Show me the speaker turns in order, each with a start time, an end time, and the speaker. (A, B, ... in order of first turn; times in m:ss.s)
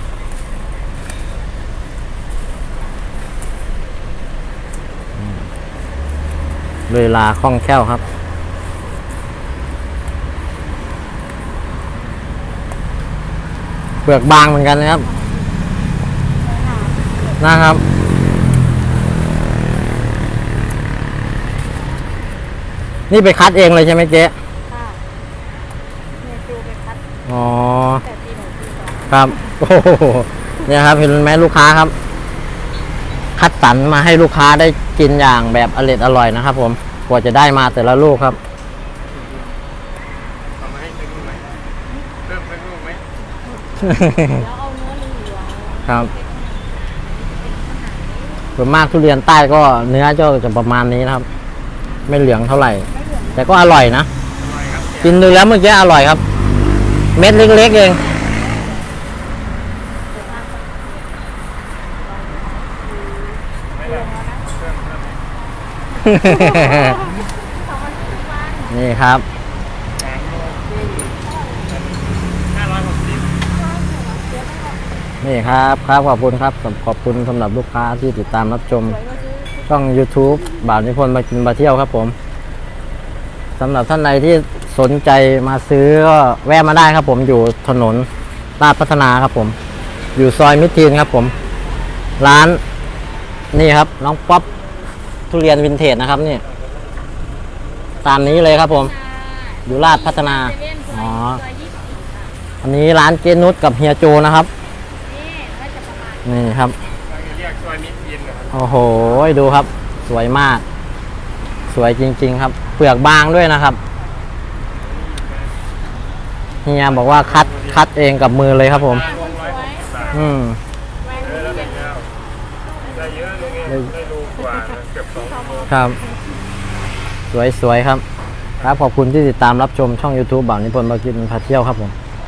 0:06.9-0:08.0 A
0:14.0-0:15.1 A
0:16.5-0:17.4 B
0:17.4-0:17.8 A
0:23.1-0:24.3 A
0:24.7-0:25.0 B
0:26.2-0:27.0 B
0:27.3-0:28.0 A
0:28.0-0:29.3 B
0:29.1-0:31.9 A
0:33.4-0:38.4 A
0:40.6-0:41.4 C
0:42.2-0:43.0 C
0:43.8-0:44.4 A
0:44.1-0:48.6 B
0:48.6-0:51.2 A
0:52.1-0:54.1 A
0:53.0-0:53.4 B
0:54.4-0:55.3 C
0:55.0-0:56.2 A
0:57.2-0:58.0 A
0:58.0-0:58.8 B
1:00.1-1:01.1 B
1:02.0-1:02.7 B
1:03.7-1:05.2 C
1:03.8-1:04.4 B
1:06.0-1:07.0 A
1:06.1-1:08.9 B
1:08.7-1:09.2 A
1:10.0-1:10.9 C
1:11.7-1:13.3 C
1:13.5-1:14.8 B
1:15.2-1:19.0 A
1:18.6-1:19.7 B
1:19.7-1:22.1 A
1:23.6-1:28.1 A
1:28.6-1:29.6 A
1:30.2-1:31.3 A
1:30.7-1:31.6 B
1:32.2-1:32.6 A
1:33.5-1:34.4 A
1:35.3-1:36.4 A
1:36.4-1:36.8 C
1:38.0-1:38.9 A
1:38.2-1:42.4 B
1:39.6-1:41.4 A
1:42.6-1:44.5 A
1:45.0-1:46.6 B
1:46.2-1:46.8 A
1:47.0-1:48.6 C
1:48.5-1:50.6 A
1:51.7-1:53.8 A
1:54.7-1:55.5 C
1:56.6-1:59.0 A
1:56.8-1:57.9 C
1:58.6-2:00.3 C
1:58.9-2:00.3 B
2:00.1-2:00.6 A
2:01.0-2:02.0 B
2:01.1-2:02.1 C
2:02.6-2:03.9 B
2:02.8-2:05.8 C
2:05.2-2:06.0 B
2:05.7-2:06.0 A
2:07.3-2:08.0 A
2:08.6-2:11.9 A